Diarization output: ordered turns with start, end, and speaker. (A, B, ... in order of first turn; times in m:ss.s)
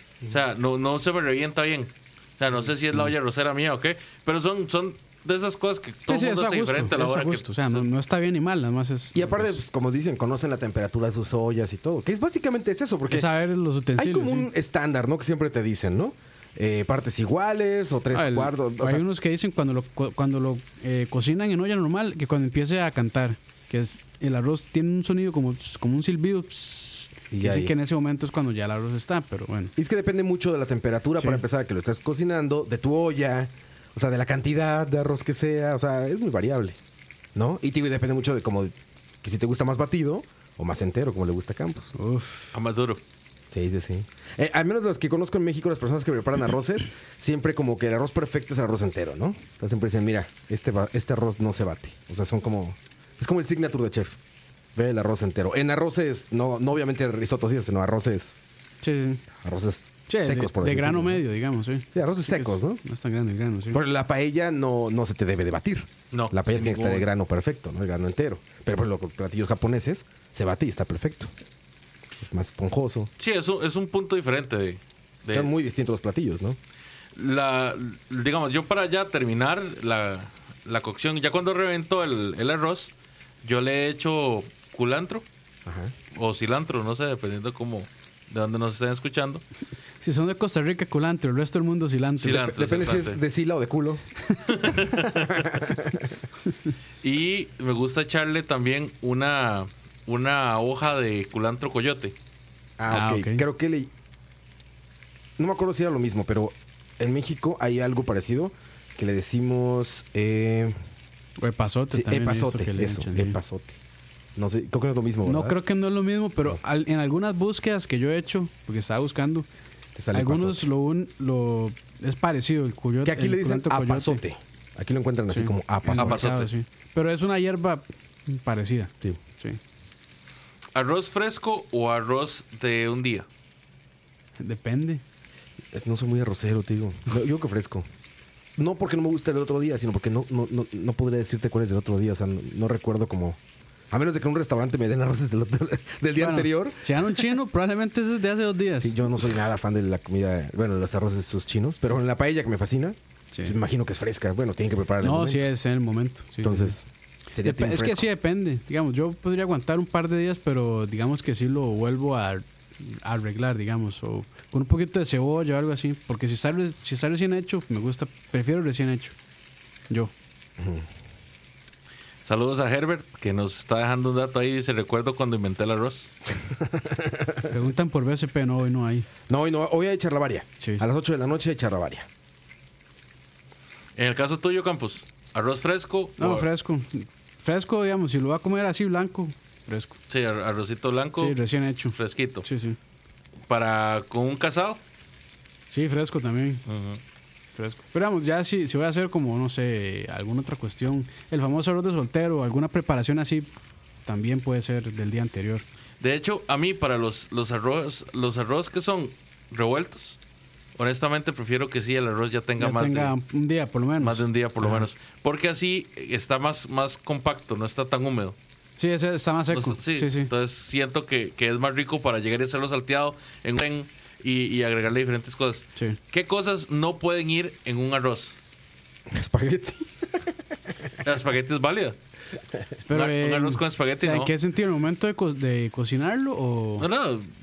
0:00.3-0:07.9 A
0:06.1-0:09.6 B
0:09.1-0:13.3 C
0:13.1-0:14.5 B
0:14.0-0:19.0 C
0:18.1-0:29.7 B
0:27.3-0:27.7 C
0:29.8-0:36.8 C
0:37.4-0:41.9 C
0:42.0-0:42.5 B
0:42.5-0:43.0 A
0:43.5-0:54.2 C
0:54.7-0:58.4 C
0:58.8-0:59.2 B
0:59.4-1:01.2 C
1:00.1-1:03.8 B
1:01.9-1:02.8 C
1:03.7-1:11.3 C
1:06.1-1:07.0 A
1:12.2-1:13.1 C
1:13.2-1:15.5 A
1:15.3-1:16.6 C
1:17.1-1:22.9 A
1:23.4-1:25.2 A
1:25.6-1:25.9 C
1:26.1-1:29.4 A
1:30.0-1:32.5 B
1:32.2-1:33.2 A
1:32.3-1:34.0 C
1:34.5-1:35.5 A
1:35.0-1:36.1 C
1:37.0-1:42.1 A
1:42.8-1:43.9 C
1:42.9-1:43.4 B
1:45.4-1:50.7 C
1:51.4-1:53.4 B
1:51.9-1:53.8 C
1:54.4-1:55.6 C
1:55.2-1:59.5 B
1:59.9-2:00.7 C
2:00.1-2:04.2 B
2:03.0-2:06.2 C
2:05.3-2:09.6 B
2:05.9-2:06.5 A
2:10.7-2:13.2 A
2:14.4-2:15.0 B
2:15.7-2:17.9 C
2:18.6-2:23.4 C
2:23.9-2:27.4 C
2:26.2-2:29.1 B
2:28.8-2:35.5 C
2:35.0-2:36.8 B
2:36.4-2:38.1 C
2:37.4-2:49.2 B
2:50.6-2:50.9 C
2:52.2-2:56.1 A
2:56.7-2:57.5 C
2:57.5-2:59.1 B
2:59.3-3:02.1 C
3:04.0-3:06.5 A
3:06.2-3:10.0 B
3:10.1-3:11.4 A
3:11.2-3:12.8 B
3:11.9-3:12.4 A
3:13.5-3:14.8 A
3:15.7-3:16.6 B
3:16.7-3:17.0 A
3:17.6-3:23.5 B
3:24.0-3:25.6 B
3:26.0-3:30.2 A
3:30.8-3:33.1 A
3:32.6-3:34.9 B
3:34.0-3:38.4 A
3:38.8-3:40.3 B
3:39.5-3:48.4 A
3:49.1-3:50.3 C
3:51.0-3:52.0 A
3:52.8-3:56.9 B
3:52.9-3:54.3 A
3:56.8-3:57.3 A